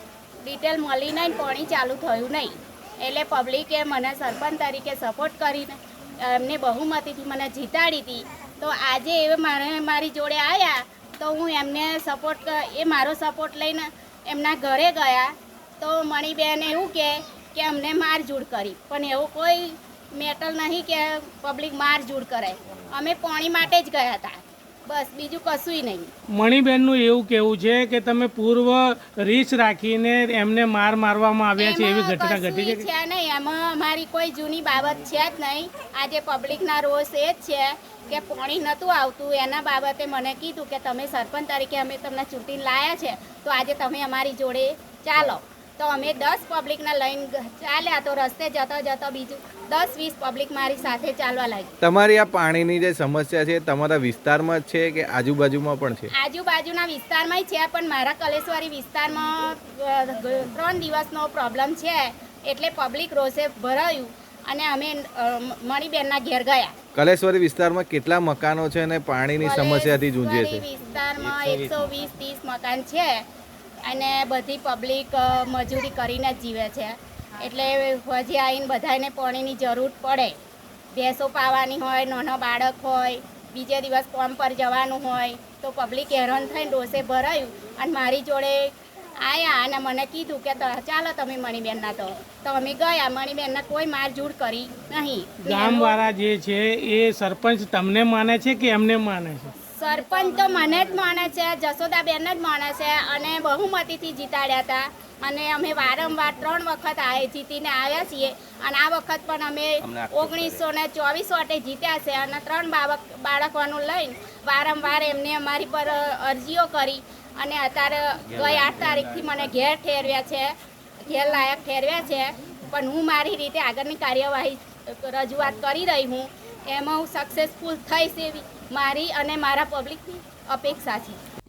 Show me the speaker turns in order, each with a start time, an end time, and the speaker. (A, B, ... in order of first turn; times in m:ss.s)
0:00.4-0:26.1 A
0:26.3-0:32.9 B
0:31.6-0:51.7 A
0:51.8-0:56.1 C
0:56.1-1:06.7 A
1:06.9-1:10.6 C
1:09.4-1:13.2 A
1:13.8-1:20.3 A
1:20.9-1:36.0 A
1:35.4-1:39.5 B
1:39.8-2:00.5 A
2:01.1-2:11.2 A